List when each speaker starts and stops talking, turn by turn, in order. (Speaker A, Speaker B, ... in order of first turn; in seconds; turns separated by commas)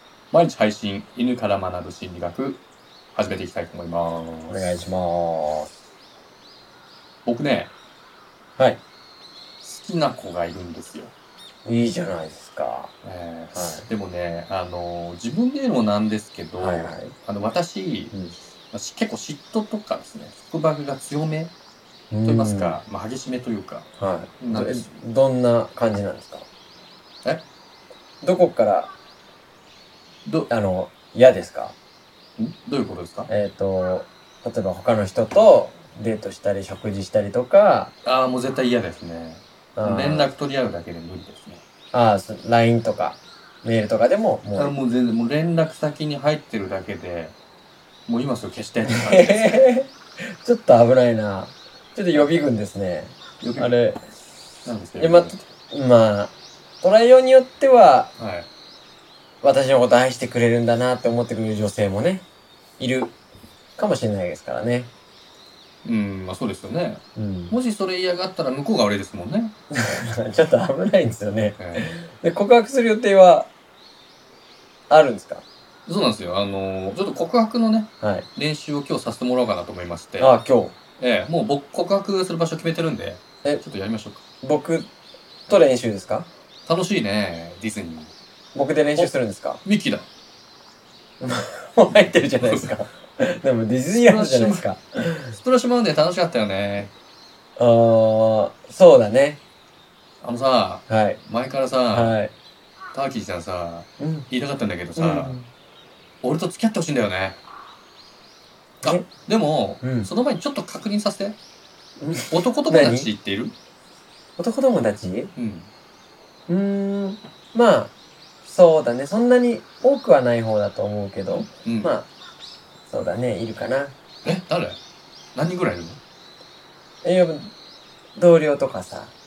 Speaker A: 0.3-2.6, Speaker A: 3.1-4.8, Speaker B: 4.5-5.7, Speaker A: 7.2-7.7, Speaker A: 9.6-11.1, Speaker B: 11.6-12.9, Speaker A: 13.0-18.1, Speaker B: 13.5-13.9, Speaker B: 16.6-17.1, Speaker A: 18.7-21.5, Speaker B: 22.1-22.8, Speaker A: 22.2-23.9, Speaker B: 24.0-26.4, Speaker A: 24.4-24.9, Speaker B: 28.2-28.9, Speaker B: 30.5-31.8, Speaker A: 32.4-33.3, Speaker B: 33.3-37.9, Speaker A: 38.0-41.6, Speaker B: 39.8-40.3, Speaker B: 41.9-44.7, Speaker A: 44.5-47.3, Speaker A: 48.1-49.7, Speaker B: 48.9-54.0, Speaker A: 53.4-53.7, Speaker A: 54.6-55.4, Speaker B: 55.0-58.1, Speaker A: 58.2-58.5, Speaker B: 59.4-62.2, Speaker B: 62.8-63.1, Speaker B: 63.8-64.9, Speaker A: 65.8-69.5, Speaker B: 67.1-67.5, Speaker B: 69.7-73.5, Speaker A: 71.6-71.9, Speaker B: 74.9-75.4, Speaker A: 75.8-80.4, Speaker B: 78.0-78.3, Speaker B: 80.2-80.7, Speaker A: 81.0-84.2, Speaker B: 84.4-84.9, Speaker B: 85.5-86.3, Speaker A: 86.7-88.1, Speaker B: 88.5-89.6, Speaker A: 89.6-90.1, Speaker B: 91.2-95.3, Speaker A: 94.0-94.6, Speaker A: 95.3-96.9, Speaker B: 97.6-99.4, Speaker A: 100.2-102.2, Speaker B: 100.9-101.2, Speaker B: 101.9-102.3, Speaker A: 102.9-105.4, Speaker B: 104.0-104.3, Speaker B: 105.0-105.5, Speaker A: 106.2-107.4, Speaker B: 108.8-109.1, Speaker A: 108.8-111.4, Speaker B: 109.8-110.1, Speaker B: 112.0-113.1, Speaker A: 112.2-113.5, Speaker B: 114.4-115.3, Speaker A: 115.3-115.7, Speaker B: 116.5-117.9, Speaker B: 118.4-122.1, Speaker A: 121.3-122.0, Speaker B: 122.9-123.9, Speaker A: 124.2-124.8, Speaker A: 125.3-126.0, Speaker B: 127.0-127.5, Speaker B: 128.2-129.1